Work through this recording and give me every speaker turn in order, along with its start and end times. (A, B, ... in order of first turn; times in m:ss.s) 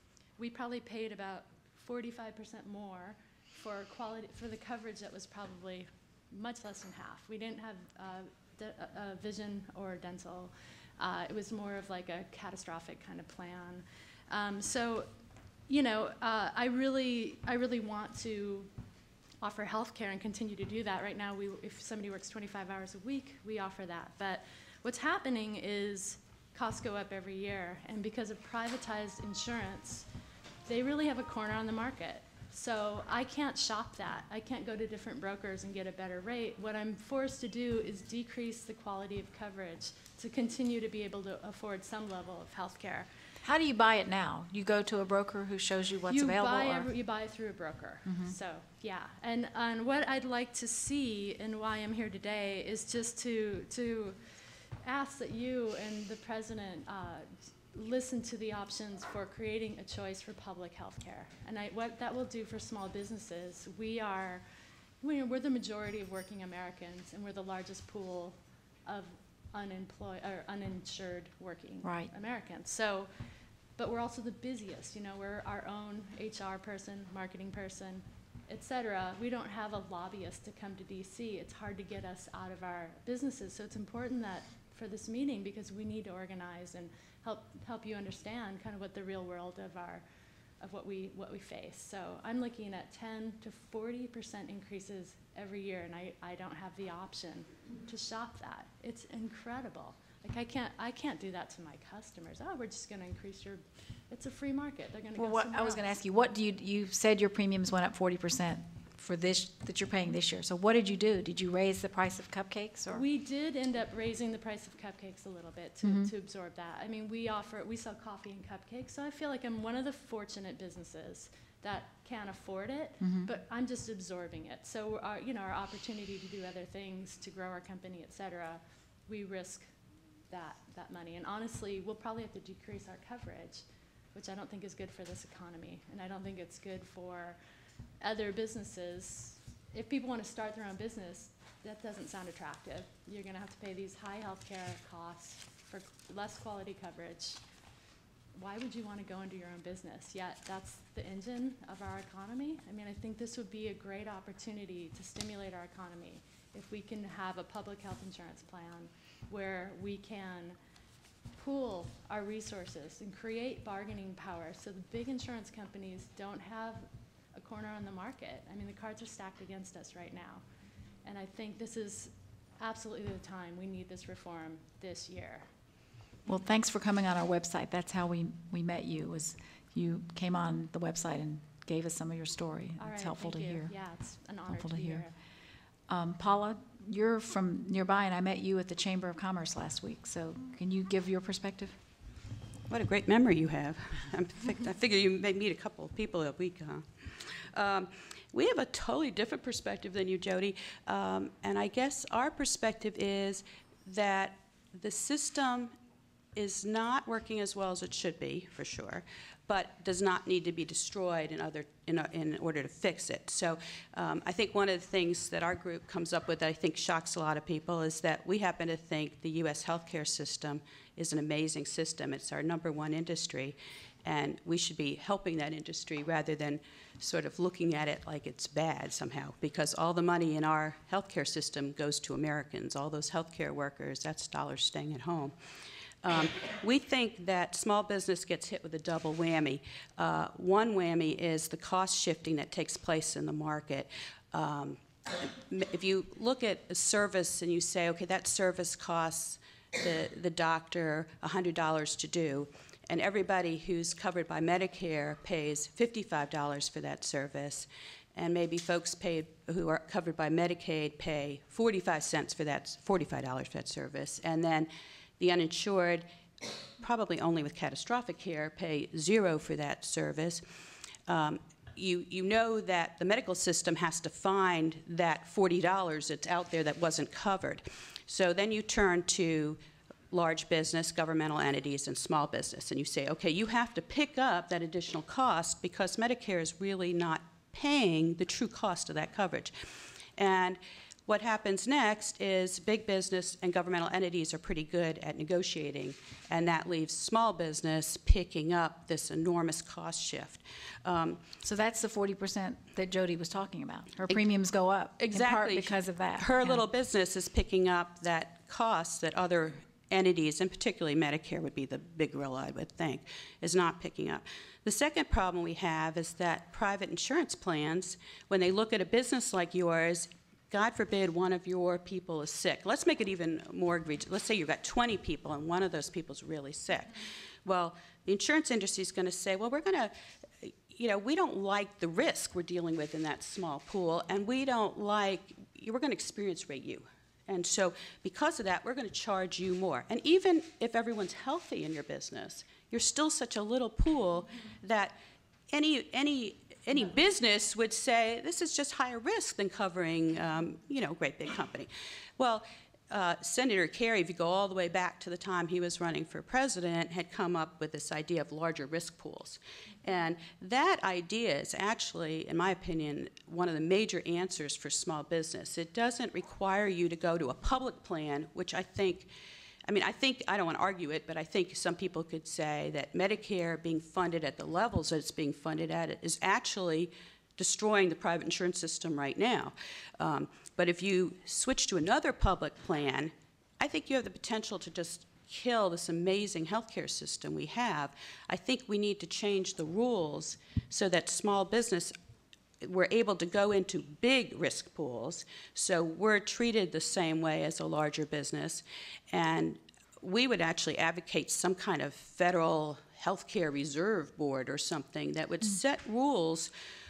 0:00.4-0:15.1 A
0:15.7-0:18.7 A
0:19.4-0:30.0 A
0:30.6-0:43.1 A
0:43.4-0:46.9 B
0:46.1-0:54.2 A
0:48.0-0:48.3 B
0:54.8-1:04.4 A
1:05.0-1:13.2 A
1:11.8-1:12.1 B
1:13.8-1:30.0 A
1:30.6-1:45.8 A
1:45.1-1:53.0 B
1:52.9-2:09.7 A
1:55.8-1:56.1 B
2:03.0-2:03.3 B
2:10.3-2:17.4 A
2:18.0-2:27.4 A
2:28.3-2:40.6 A
2:41.4-2:50.4 A
2:51.0-2:55.5 A
2:56.2-3:03.7 B
3:02.8-3:05.1 A
3:04.5-3:05.1 B
3:05.9-3:11.8 B
3:12.7-3:25.7 C
3:26.4-3:55.3 C
3:56.0-4:26.0 C
4:26.8-4:30.4 C
4:31.1-4:39.6 C
4:40.1-5:01.2 C
5:01.4-5:06.6 B
5:05.0-5:44.9 C
5:45.5-6:09.1 C
6:09.6-6:31.9 C
6:32.6-6:46.5 C